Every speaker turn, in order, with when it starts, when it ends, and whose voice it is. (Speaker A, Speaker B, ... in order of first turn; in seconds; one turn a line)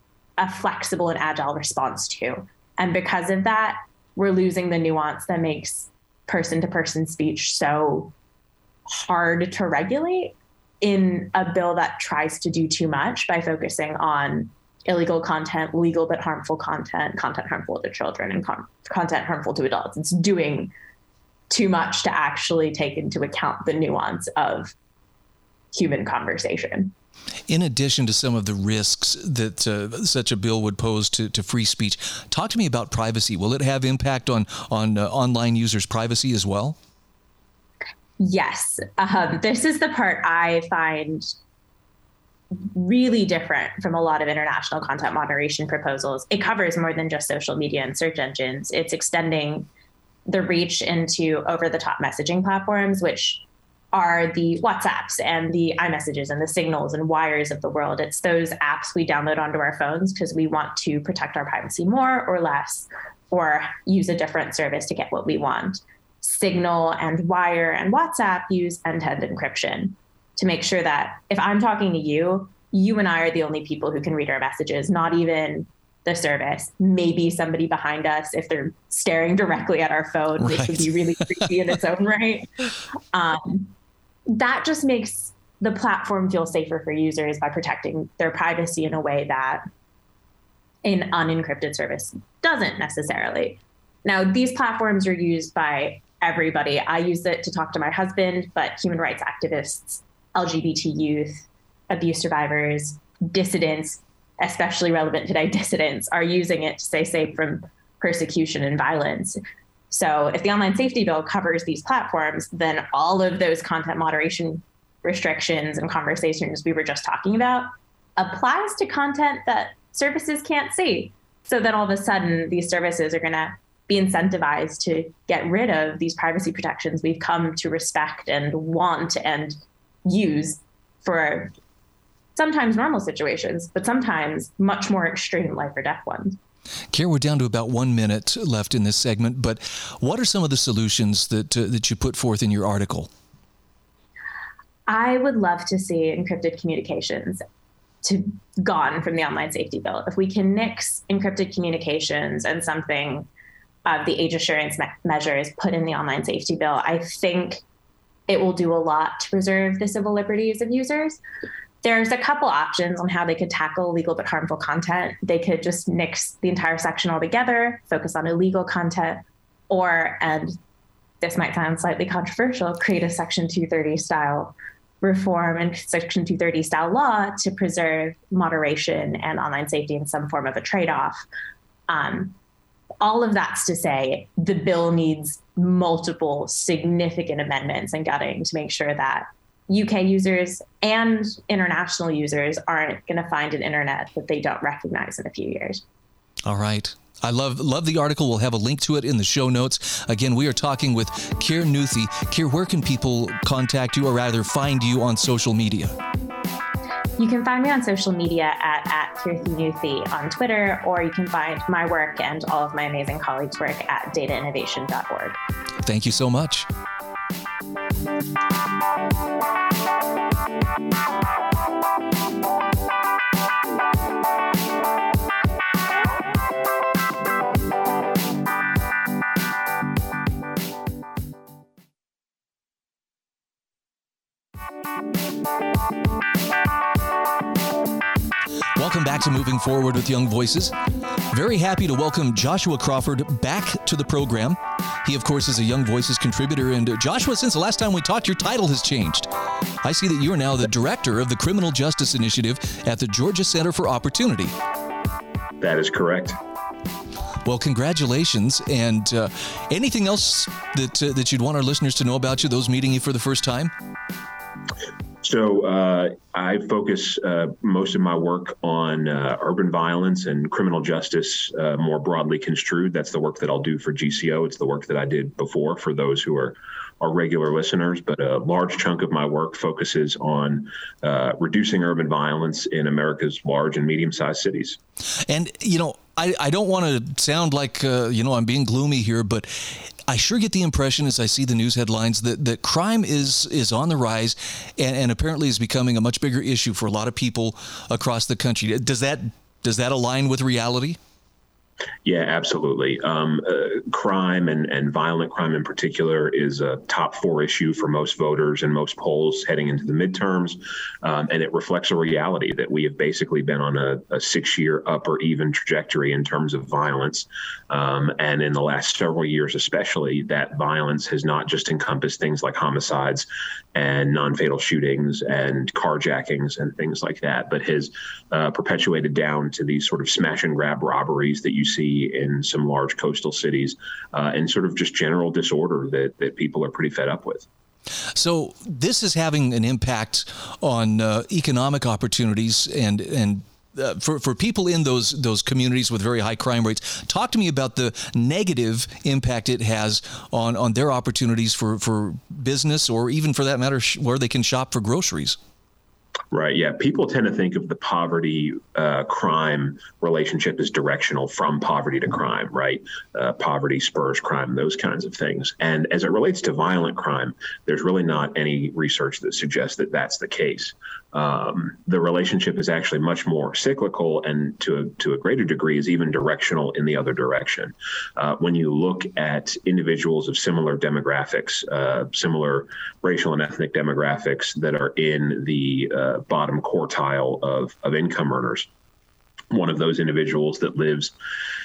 Speaker A: 0.4-8.1
Speaker A: 8.9-20.7
Speaker A: 21.5-24.7
Speaker A: 25.7-26.9
Speaker B: 27.5-36.8
Speaker A: 38.2-41.3
Speaker A: 42.5-49.7
Speaker A: 50.3-53.4
Speaker A: 53.9-82.5
Speaker B: 80.4-80.8
Speaker A: 83.1-83.7
Speaker A: 84.3-89.6
Speaker A: 90.8-109.4
Speaker A: 109.9-131.5
Speaker A: 132.3-136.4
Speaker B: 136.9-143.1
Speaker A: 144.9-147.4
Speaker A: 148.0-153.3
Speaker A: 153.8-157.6
Speaker A: 158.3-161.2
Speaker A: 161.8-170.6
Speaker A: 171.2-181.2
Speaker A: 181.9-182.3
Speaker A: 183.0-195.8
Speaker B: 196.4-205.9
Speaker A: 207.2-215.4
Speaker B: 215.8-216.7
Speaker B: 238.8-240.7
Speaker B: 241.3-254.5
Speaker C: 255.6-256.4
Speaker B: 257.4-263.7
Speaker C: 265.2-284.8
Speaker B: 285.3-301.0
Speaker C: 302.0-337.4
Speaker B: 338.1-355.4
Speaker C: 356.3-388.7
Speaker C: 389.5-391.1